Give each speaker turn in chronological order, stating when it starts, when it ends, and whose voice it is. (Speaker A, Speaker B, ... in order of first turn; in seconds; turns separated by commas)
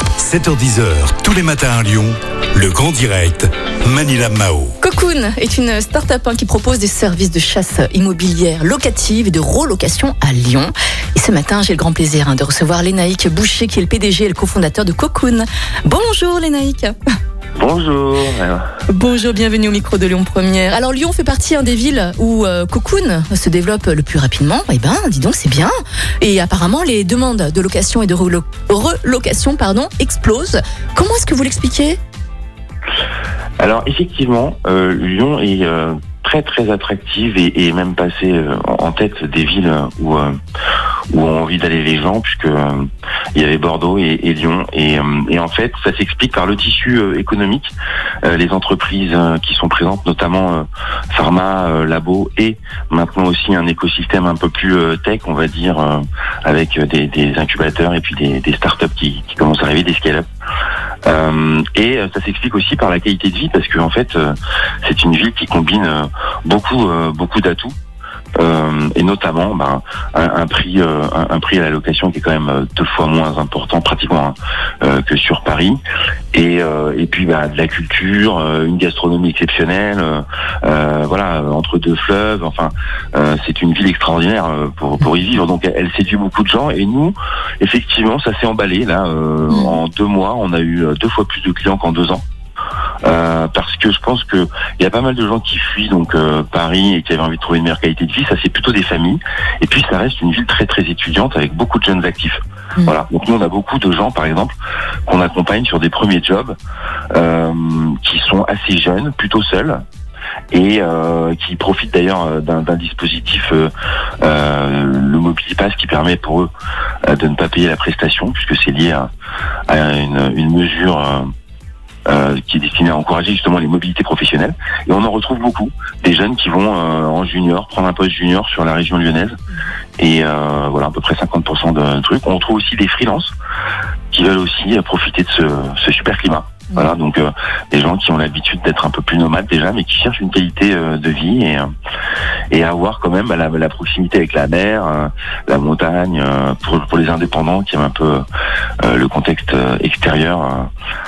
Speaker A: 0.2-4.8, Speaker B: 4.8-16.9, Speaker C: 17.6-18.6, Speaker B: 18.9-32.0, Speaker C: 33.6-40.3, Speaker C: 41.1-47.7, Speaker C: 48.2-60.3, Speaker C: 61.0-67.8, Speaker C: 68.4-75.8, Speaker C: 76.3-92.2, Speaker B: 89.5-89.8, Speaker C: 93.0-104.5, Speaker C: 105.1-106.6, Speaker C: 107.1-109.8, Speaker C: 110.5-113.7, Speaker C: 114.2-116.5, Speaker C: 117.0-119.1, Speaker C: 119.7-121.3, Speaker C: 122.1-129.4, Speaker C: 130.0-133.3, Speaker C: 134.1-141.7, Speaker C: 142.5-148.2, Speaker C: 148.8-150.7